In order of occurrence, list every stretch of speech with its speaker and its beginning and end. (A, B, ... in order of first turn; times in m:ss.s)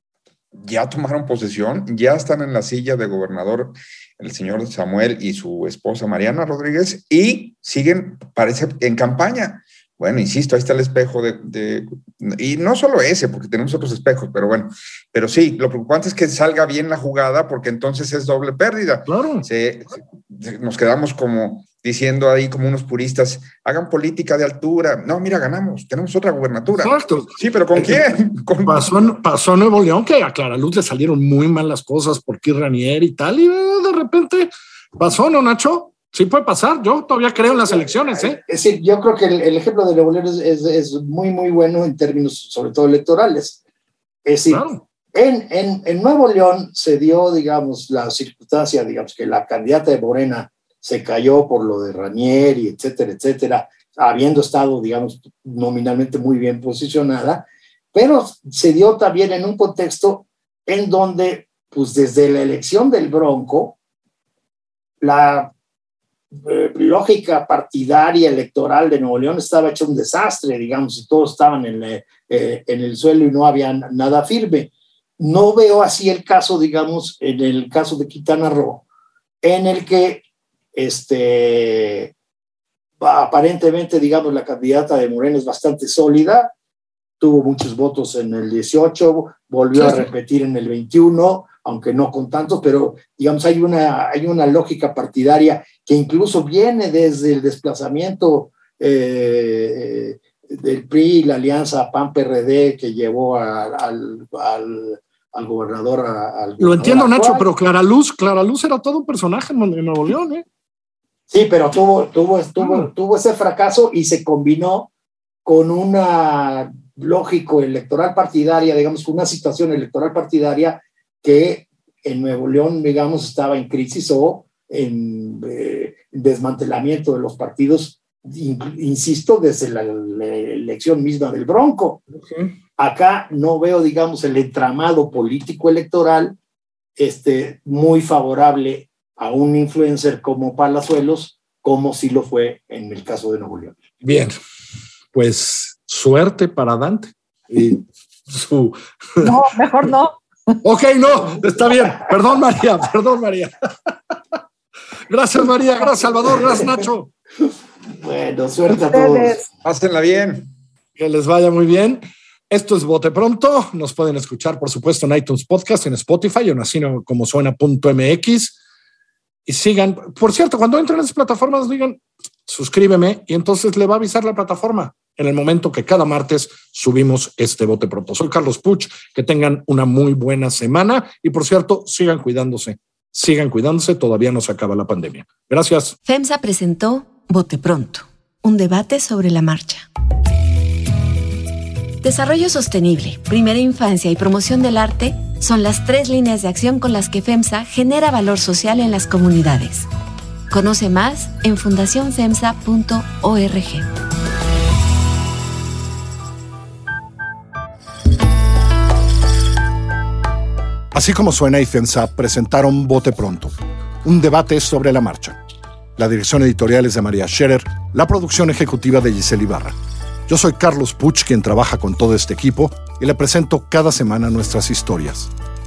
0:00.5-0:28.9 A
0:19.1-0:19.4 B
0:26.8-0:27.3 B
0:28.6-0:38.4 B
0:37.5-0:43.6 C
0:44.2-1:03.8 C
0:44.5-0:44.8 B
1:05.0-1:05.5 C
1:06.3-1:18.8 C
1:19.4-1:20.2 C
1:20.7-1:22.1 C
1:23.0-1:26.5 C
1:27.2-1:47.4 C
1:29.8-1:30.0 B
1:46.6-1:50.4 B
1:51.3-1:54.9 C
1:52.6-1:52.9 B
1:55.4-2:12.0 C
2:12.2-2:12.5 B
2:12.8-2:16.4 C
2:17.0-2:23.7 C
2:24.0-2:24.3 B
2:25.1-2:29.3 B
2:29.2-2:30.6 D
2:30.6-2:33.5 B
2:35.1-2:37.1 B
2:37.4-2:39.4 C
2:38.7-2:39.4 D
2:39.6-2:40.5 A
2:41.0-2:48.6 B
2:49.4-3:06.0 B
3:06.0-3:09.9 E
3:12.0-3:19.9 E
3:20.5-3:23.9 E
3:30.9-3:35.4 B
3:36.0-3:39.8 B
3:40.3-3:45.3 B